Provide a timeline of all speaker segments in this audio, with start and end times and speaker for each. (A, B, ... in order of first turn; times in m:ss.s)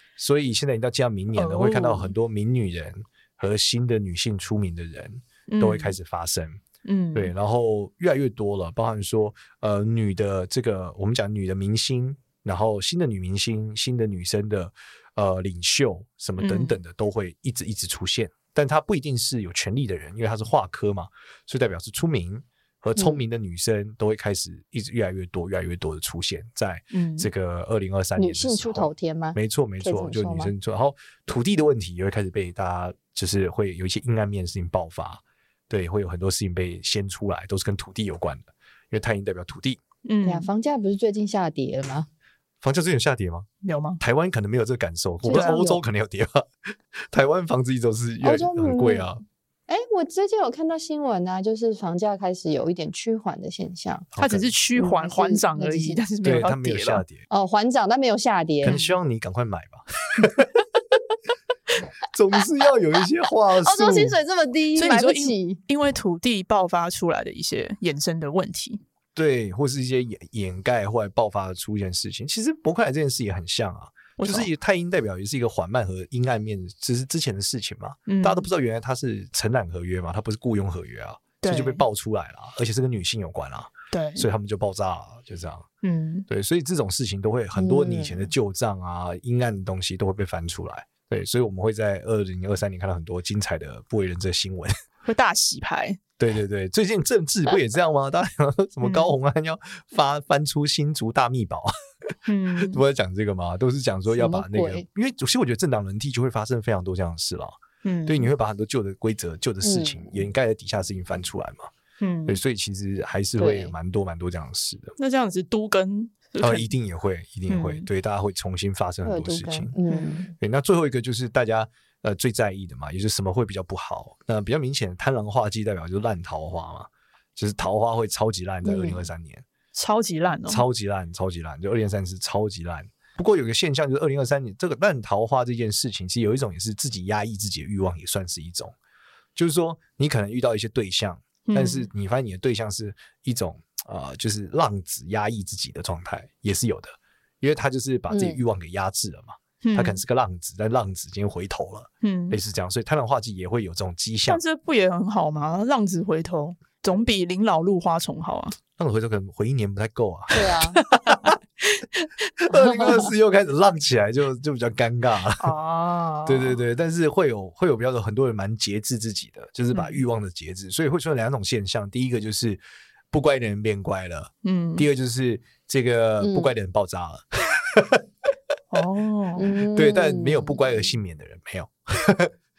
0:00.2-0:06.6 A
0:01.3-0:02.1 B
0:05.5-0:06.0 B
0:06.8-0:07.3 B
0:07.1-0:39.8 A
0:16.4-0:16.8 B
0:23.0-0:23.2 C
0:26.9-0:27.3 B
0:28.2-0:30.5 C
0:40.0-0:40.5 B
0:40.2-0:42.1 C
0:42.6-0:43.5 A
0:43.6-0:44.0 B
0:44.0-0:46.5 A
0:45.2-0:45.8 C
0:45.3-0:45.6 B
0:47.1-0:49.2 A
0:48.2-0:49.1 C
0:49.7-0:54.1 C
0:54.1-0:54.5 A
0:54.2-0:57.0 B
0:54.8-0:56.0 C
0:56.2-0:57.2 A
0:57.3-0:58.8 C
0:58.6-1:00.6 A
0:58.7-0:59.0 B
1:02.1-1:04.2 A
1:03.6-1:05.6 C
1:04.8-1:08.8 B
1:09.1-1:25.6 A
1:14.2-1:14.5 B
1:18.1-1:18.4 B
1:21.4-1:21.8 B
1:23.9-1:24.3 B
1:25.8-1:26.3 B
1:26.3-1:34.7 A
1:27.5-1:28.3 C
1:35.0-1:36.0 B
1:36.2-1:51.7 A
1:38.8-1:39.1 B
1:42.2-1:42.8 B
1:44.1-1:44.8 C
1:47.8-1:48.3 B
1:49.6-1:50.2 C
1:52.0-1:52.4 B
1:52.3-1:54.9 A
1:53.4-1:53.7 C
1:55.0-1:56.7 B
1:56.4-1:59.7 A
1:57.5-1:57.9 B
1:59.0-2:00.3 C
2:00.4-2:09.4 A
2:08.6-2:09.0 C
2:09.7-2:10.6 B
2:10.4-2:18.7 A
2:19.4-2:34.4 A
2:21.5-2:21.9 B
2:28.1-2:28.4 C
2:29.6-2:30.0 B
2:32.0-2:32.4 B
2:34.2-2:38.6 B
2:38.8-2:40.5 A
2:40.3-2:40.8 C
2:40.8-2:42.1 B
2:41.0-2:41.3 A
2:42.4-2:45.5 A
2:42.6-2:43.0 B
2:45.4-2:46.6 B
2:46.2-2:52.6 A
2:49.7-2:50.0 B
2:53.1-2:58.0 A
2:54.4-2:54.8 B
2:56.2-2:56.5 C
2:58.7-2:59.5 B
2:59.4-3:00.9 C
2:59.6-3:02.3 A